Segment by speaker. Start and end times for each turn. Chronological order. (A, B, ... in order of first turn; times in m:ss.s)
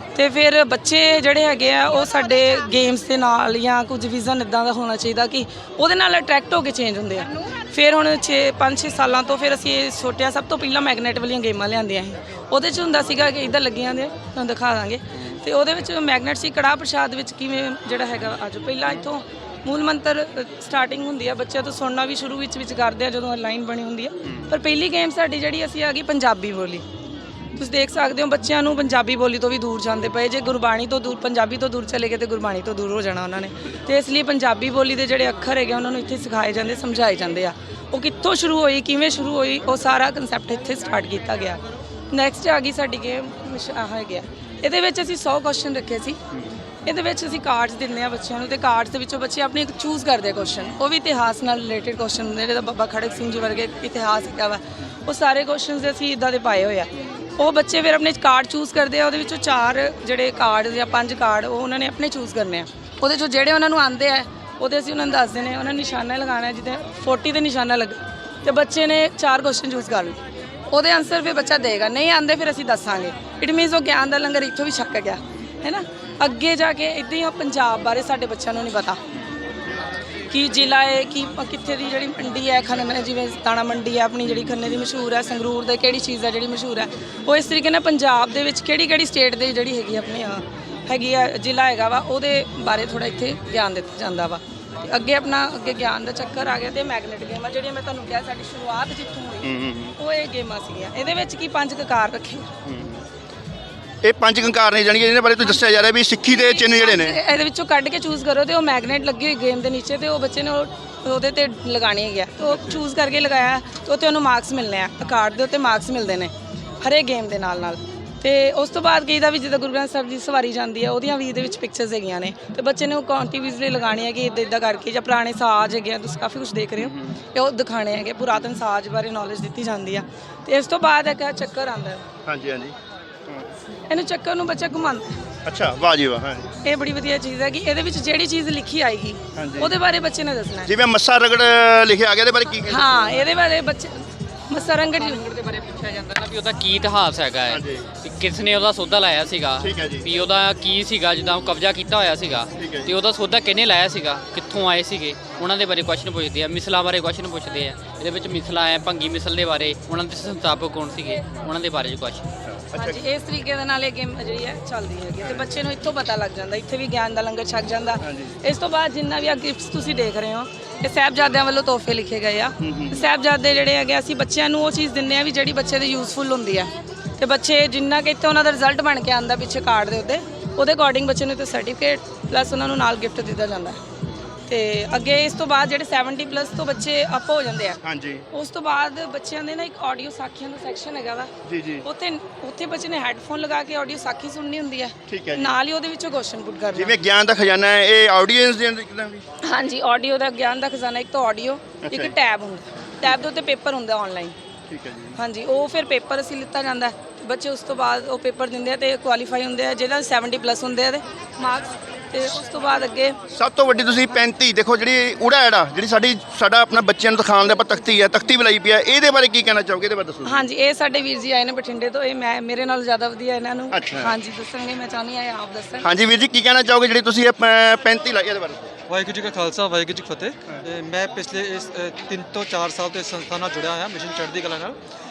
0:00.2-0:26.8 A
0:27.6-0:41.6 A
0:42.1-0:46.2 A
0:46.9-1:10.2 A
1:10.7-1:19.0 A
1:20.3-1:42.5 A
1:39.4-1:39.9 B
1:42.6-1:43.0 B
1:44.0-1:47.2 B
1:46.3-2:12.0 A
2:06.8-2:07.1 B
2:12.2-2:12.8 B
2:13.9-2:15.2 A
2:15.4-2:16.5 B
2:16.6-2:20.7 A
2:19.4-2:19.7 B
2:20.6-2:23.2 B
2:22.7-2:24.0 A
2:24.5-2:25.2 A
2:25.0-2:42.2 C
2:27.5-2:27.9 B
2:29.6-2:30.1 B
2:32.6-2:33.0 B
2:42.5-2:43.0 B
2:42.7-3:03.8 A
2:48.0-2:48.3 B
2:52.6-2:53.0 B
3:04.5-3:07.8 A
3:07.8-3:08.2 B
3:08.3-3:11.3 A
3:11.5-3:11.8 B
3:11.8-3:17.0 A
3:15.1-3:15.6 B
3:16.7-3:19.2 B
3:19.4-3:24.4 A
3:21.8-3:22.1 B
3:24.7-3:25.2 B
3:25.2-3:33.2 A
3:33.3-3:40.5 B
3:40.2-3:45.9 A
3:43.7-3:44.1 B
3:45.8-3:48.7 B
3:48.9-3:54.8 D